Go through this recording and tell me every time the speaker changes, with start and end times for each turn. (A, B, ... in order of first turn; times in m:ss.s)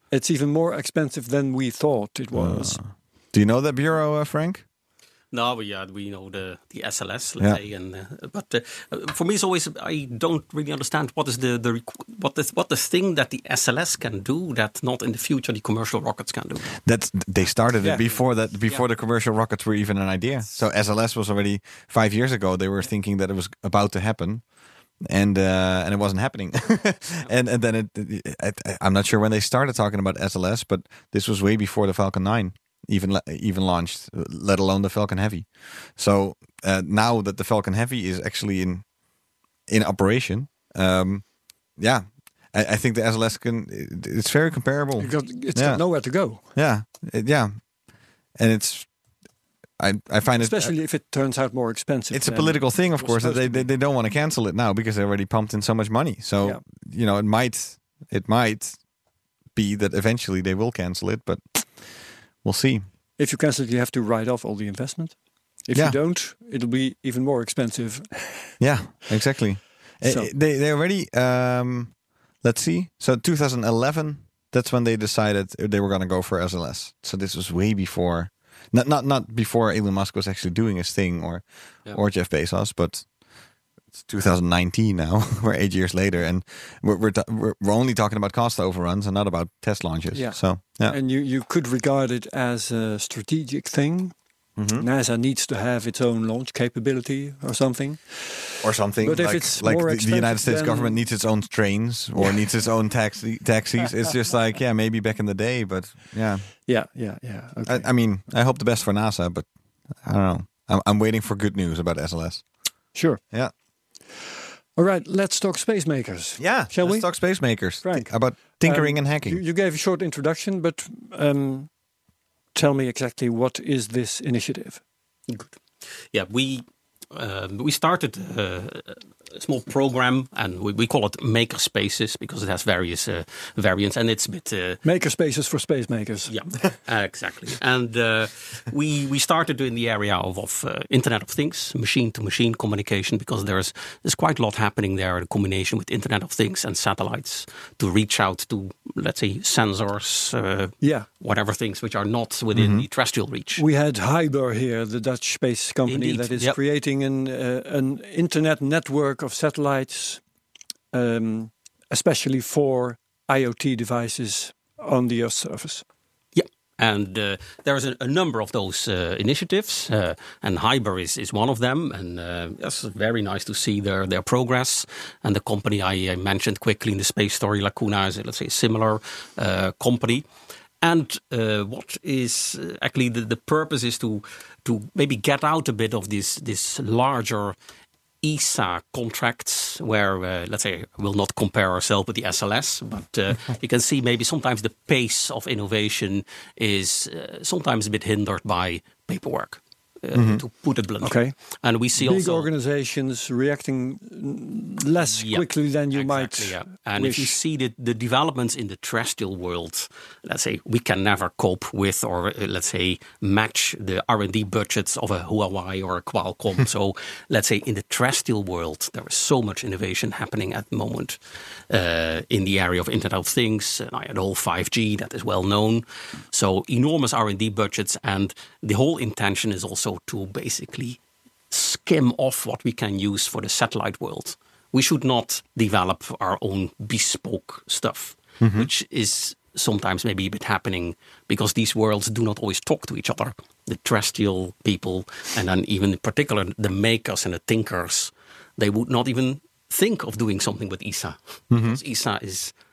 0:00.1-0:02.8 A
0:02.3-0:04.6 B
0:05.3-0:16.8 C
0:16.8-0:24.4 B
0:25.0-0:38.8 B
0:39.7-0:41.2 B
0:41.8-0:45.8 B
0:45.0-0:46.5 A
0:46.6-0:47.6 B
0:48.4-0:48.9 B
0:49.8-0:50.7 B
0:50.4-0:53.7 A
0:52.1-0:58.8 B
0:59.6-1:01.7 B
1:02.4-1:02.8 B
1:03.2-1:05.2 A
1:05.7-1:08.5 A
1:08.6-1:23.1 B
1:10.0-1:10.3 A
1:24.0-1:31.0 B
1:30.1-1:34.2 A
1:34.6-1:34.8 B
1:34.8-1:41.0 A
1:38.6-1:46.5 B
1:46.7-1:47.9 A
1:47.7-1:49.5 B
1:50.0-1:52.4 B
1:52.9-1:53.2 A
1:54.8-1:57.1 A
1:56.4-1:59.4 B
1:57.8-2:01.7 A
2:02.6-2:04.8 A
2:05.3-2:05.5 C
2:06.1-2:14.8 C
2:14.8-2:16.3 A
2:16.3-2:33.6 C
2:30.8-2:31.1 A
2:32.5-2:32.9 B
2:33.6-2:40.2 A
2:35.9-2:36.6 C
2:40.9-2:45.8 A
2:46.4-3:00.2 C
3:00.8-3:07.6 C
3:08.2-3:22.5 C
3:20.1-3:20.4 B
3:21.0-3:21.3 A
3:22.0-3:27.4 A
3:25.0-3:41.2 C
3:41.7-3:51.0 C
3:51.5-4:12.5 C
3:58.4-3:58.7 B
4:11.5-4:11.8 B